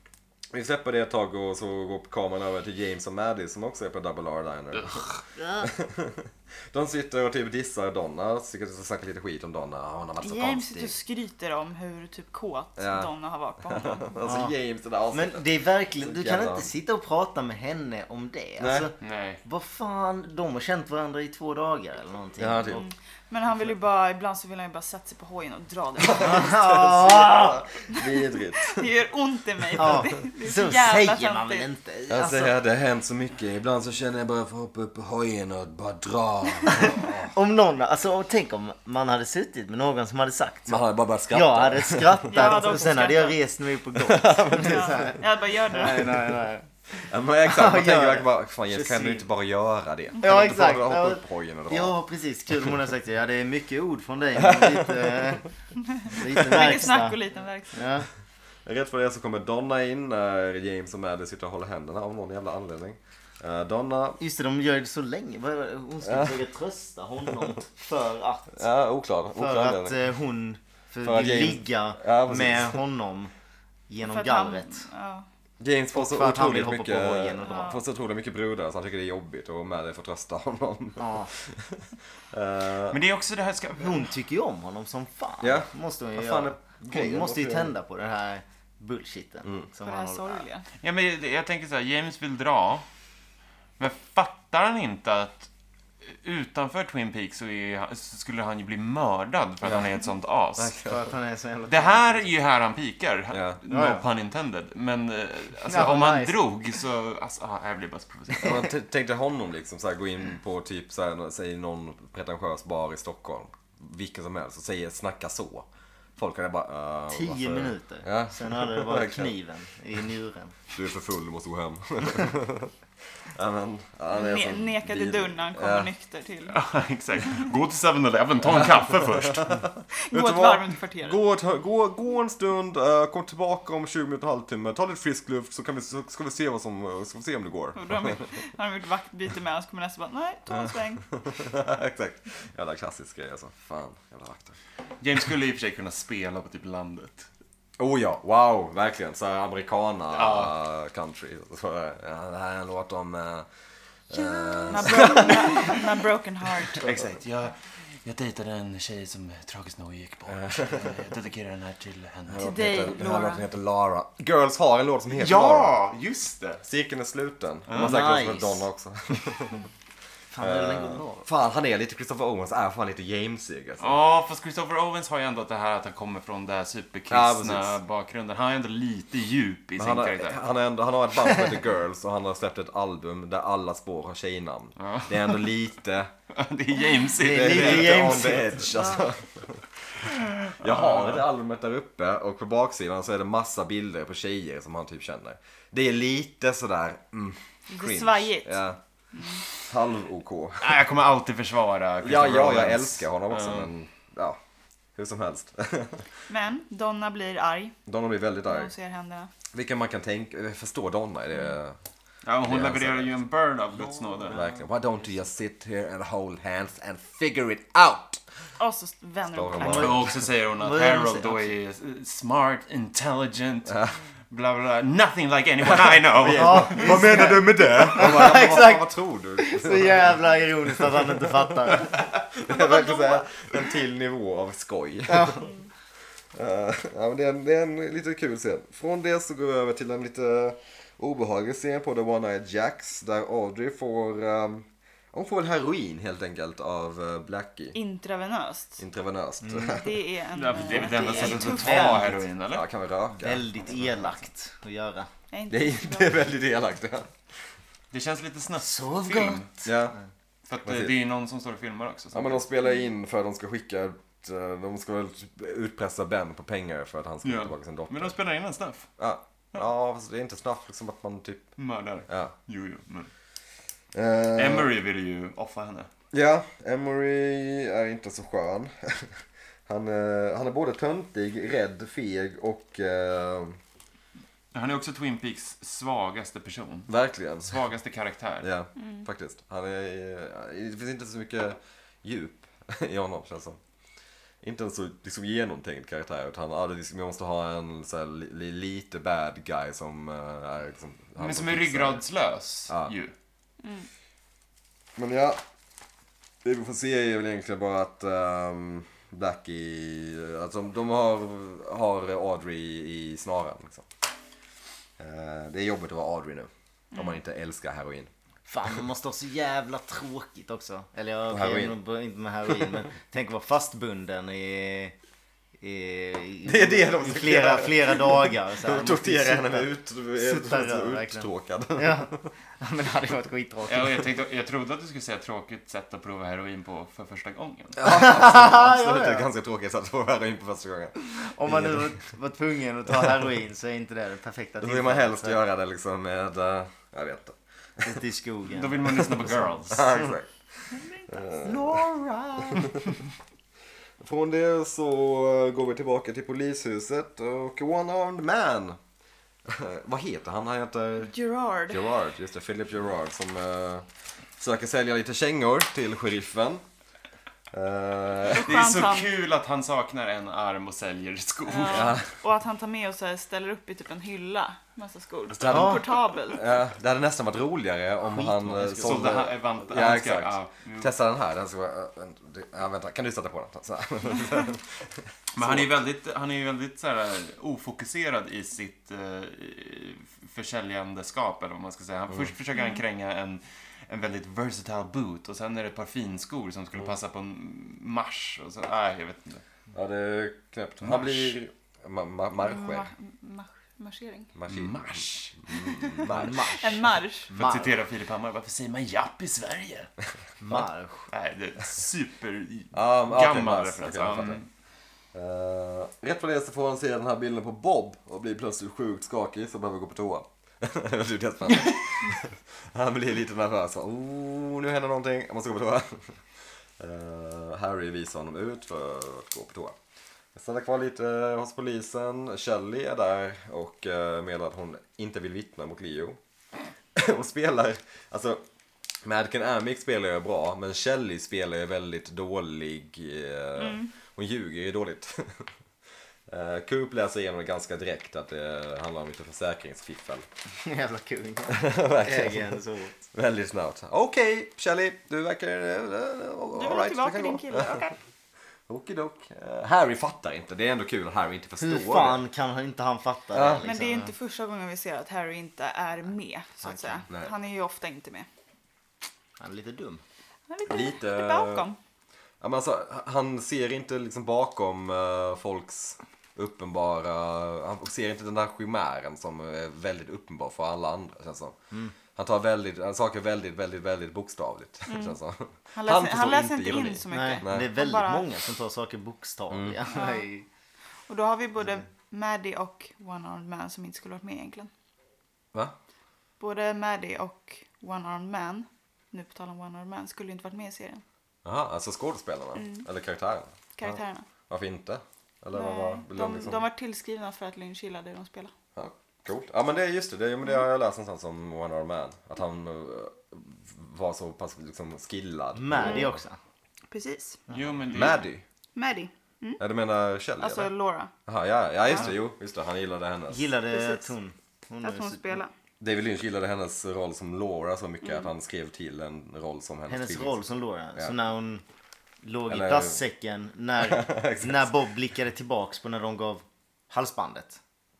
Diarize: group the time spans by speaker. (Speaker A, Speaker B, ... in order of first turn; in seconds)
Speaker A: 0.5-10.9, 12.8-13.1, 13.6-16.7, 18.6-18.9, 22.4-22.8, 26.0-28.9, 29.7-30.1, 32.1-37.3, 40.7-42.5, 44.0-45.2, 47.0-51.9, 54.4-55.4, 58.6-64.2, 66.0-66.4, 68.5-69.9, 71.0-72.8, 75.6-83.0, 85.4-87.7, 100.6-101.0, 103.3-103.6, 108.4-115.7, 116.2-119.3, 120.7-122.7, 123.2-125.9, 128.5-138.2, 140.5-144.6, 147.8-153.5, 154.1-155.9, 160.3-161.0, 162.3-165.8, 166.6-169.7, 170.4-173.9, 177.1-177.8, 179.8-186.1, 187.2-198.8, 199.6-200.8, 202.0-204.4, 204.9-206.1, 207.9-208.7, 209.5-211.8, 212.4-213.2, 214.3-218.2, 219.3-220.1, 223.7-223.9, 225.9-235.5, 236.3-247.8, 248.8-250.0, 252.5-253.4, 255.5-257.1, 259.6-259.9, 260.6-260.9, 262.1-268.1, 269.0-271.5, 272.1-272.3, 273.9-274.7, 276.1-283.6, 286.9-287.6, 288.4-293.6, 294.4-302.0, 302.7-302.9, 304.9-305.4, 306.4-313.8, 315.0-318.1, 321.3-321.8, 322.5-322.8, 326.4-332.3, 337.8-341.9, 344.6-348.0, 349.1-351.9, 352.4-352.8, 354.0-358.8, 359.5-361.1, 361.7-363.9, 364.4-366.6, 367.5-368.6, 371.7-372.1, 375.3-385.8, 399.7-402.9, 404.3-406.4, 412.7-414.4, 415.1-426.2, 426.8-429.8, 430.3-436.2, 436.9-438.4, 439.0-445.5, 446.3-450.2, 451.5-457.8, 458.7-462.2, 463.3-463.7, 467.1-467.3, 470.7-471.7, 472.4-481.6, 482.1-487.7, 489.5-489.8, 501.4-506.6, 508.7-516.2, 517.9-518.4, 519.6-520.7, 521.2-523.5, 525.8-530.4, 532.5-533.0, 533.8-534.7
Speaker B: 4.7-5.2, 19.0-19.4, 82.9-84.0, 90.8-92.8, 93.8-95.5, 96.0-100.7, 101.7-108.7, 126.5-129.7, 145.0-147.3, 150.1-150.5, 156.7-162.6, 165.1-166.6, 167.7-168.0, 173.8-180.4, 184.8-185.5, 186.3-188.4, 190.2-191.2, 200.6-203.7, 212.2-214.4, 219.7-227.2, 250.3-252.7, 257.9-259.5, 260.5-262.4, 267.2-268.9, 271.6-273.1, 274.3-275.9, 284.5-286.9, 287.4-288.5, 301.2-303.1, 333.6-337.8, 348.5-350.0, 368.4-371.9, 378.8-380.9, 385.3-399.4, 400.8-401.4, 404.5-406.2, 407.3-409.9, 411.1-414.5, 517.5-518.2
Speaker C: 5.4-5.7, 14.2-14.5, 15.1-22.9, 26.2-27.6, 29.8-32.5, 36.7-46.7, 47.4-49.2, 50.2-55.5, 56.1-57.2, 57.7-58.1, 64.2-68.6, 69.3-73.3, 73.9-74.8, 75.9-77.8, 81.0-81.3, 83.8-90.5, 100.7-102.3, 103.7-104.0, 105.7-106.4, 117.1-120.5, 167.7-168.7, 170.3-171.2, 187.2-188.6, 219.6-221.5, 226.2-231.9, 235.1-235.5, 249.4-249.8, 250.6-252.2, 253.2-255.1, 258.6-260.0, 318.5-324.9, 325.6-334.1, 337.8-339.3, 341.1-345.4, 347.8-349.5, 351.4-352.9, 375.4-375.8, 378.1-379.3, 406.1-407.7, 410.4-411.1, 450.5-452.9, 461.6-464.1, 466.6-467.0, 469.4-470.0, 487.1-490.4, 515.5-516.4, 523.3-525.4, 529.9-531.6, 532.2-537.6
Speaker D: 10.2-14.2, 22.7-27.1, 27.9-31.6, 42.3-43.4, 44.5-46.3, 56.1-57.9, 74.0-75.2, 77.4-77.8, 89.8-90.7, 124.1-126.6, 130.0-131.2, 137.7-141.2, 154.7-156.9, 162.4-163.4, 188.7-189.0, 197.7-198.6, 199.1-199.4, 206.3-207.8, 208.4-209.3, 218.6-220.0, 232.5-233.5, 247.7-248.8, 249.7-252.1, 255.3-256.2, 288.8-289.1, 303.6-303.9, 316.9-317.2, 361.0-361.8, 368.3-369.1, 371.5-376.4, 392.5-392.8, 402.4-404.3, 406.6-407.3, 443.6-443.9, 456.5-457.9, 463.6-468.3, 470.5-471.8, 484.9-485.2, 485.7-488.3, 489.9-490.3, 491.1-494.7, 496.4-501.0, 502.5-502.9, 503.8-504.3, 505.5-508.5, 515.8-516.1, 516.9-517.4, 518.7-519.6, 520.4-521.1, 523.7-524.1, 524.8-525.5, 528.0-528.3